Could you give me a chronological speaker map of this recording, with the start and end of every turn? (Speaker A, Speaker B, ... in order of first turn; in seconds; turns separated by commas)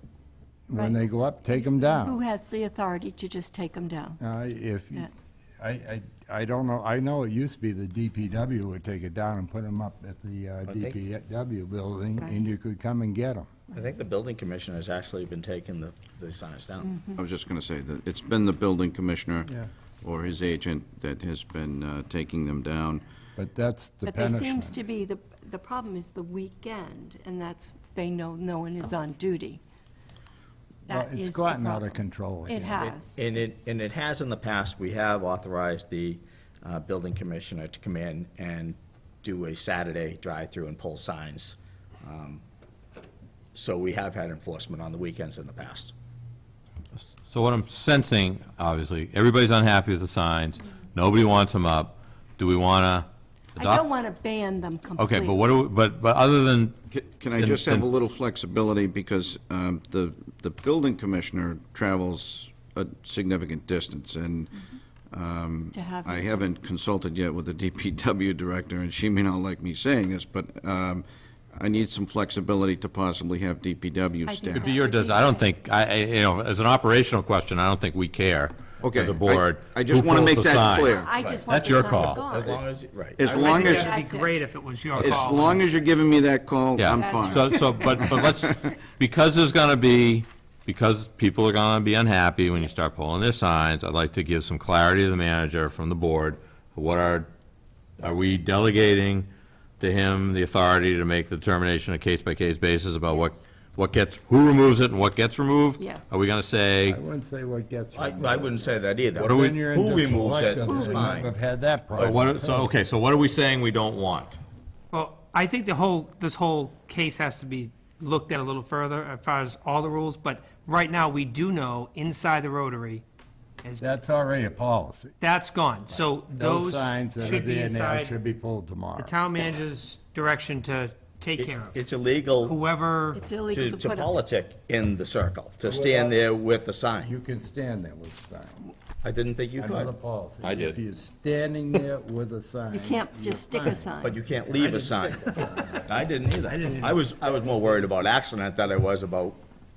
Speaker A: 0.7-2.2, Speaker B: 0.7-4.2, Speaker A: 4.2-13.5, Speaker C: 10.7-11.0, Speaker C: 13.7-16.9, Speaker B: 16.9-17.2, Speaker D: 17.1-19.5, Speaker D: 20.0-23.0, Speaker A: 23.4-24.8, Speaker B: 24.0-29.6, Speaker A: 30.9-32.9, Speaker B: 30.9-33.2, Speaker C: 32.8-42.4, Speaker C: 43.5-45.9, Speaker E: 46.9-53.8, Speaker B: 53.6-55.4, Speaker E: 55.0-56.8, Speaker D: 56.9-64.5, Speaker E: 57.4-57.9, Speaker D: 65.1-74.7, Speaker B: 65.7-66.4, Speaker B: 74.2-75.4, Speaker E: 74.5-82.2, Speaker D: 78.8-81.1, Speaker B: 80.8-82.5, Speaker C: 81.2-84.0, Speaker D: 83.2-83.9, Speaker B: 83.2-85.6, Speaker F: 83.6-85.6, Speaker D: 85.0-88.3, Speaker E: 86.8-97.3, Speaker B: 86.9-88.0, Speaker E: 98.0-99.3, Speaker E: 99.8-107.0, Speaker B: 105.8-106.2, Speaker A: 106.8-112.7, Speaker C: 107.9-111.3, Speaker E: 109.2-109.7, Speaker B: 110.7-111.0, Speaker E: 112.0-114.4, Speaker F: 114.9-123.0, Speaker F: 123.6-123.9, Speaker A: 123.8-125.1, Speaker F: 125.2-128.2, Speaker A: 126.0-129.1, Speaker B: 127.0-127.3, Speaker F: 129.0-131.8, Speaker C: 131.4-132.6, Speaker F: 132.5-133.2, Speaker B: 133.1-134.1, Speaker C: 133.5-137.1, Speaker A: 135.7-136.2, Speaker A: 137.0-138.7, Speaker C: 139.0-139.9, Speaker A: 139.6-143.8, Speaker E: 140.4-140.8, Speaker B: 142.7-144.2, Speaker C: 144.0-149.4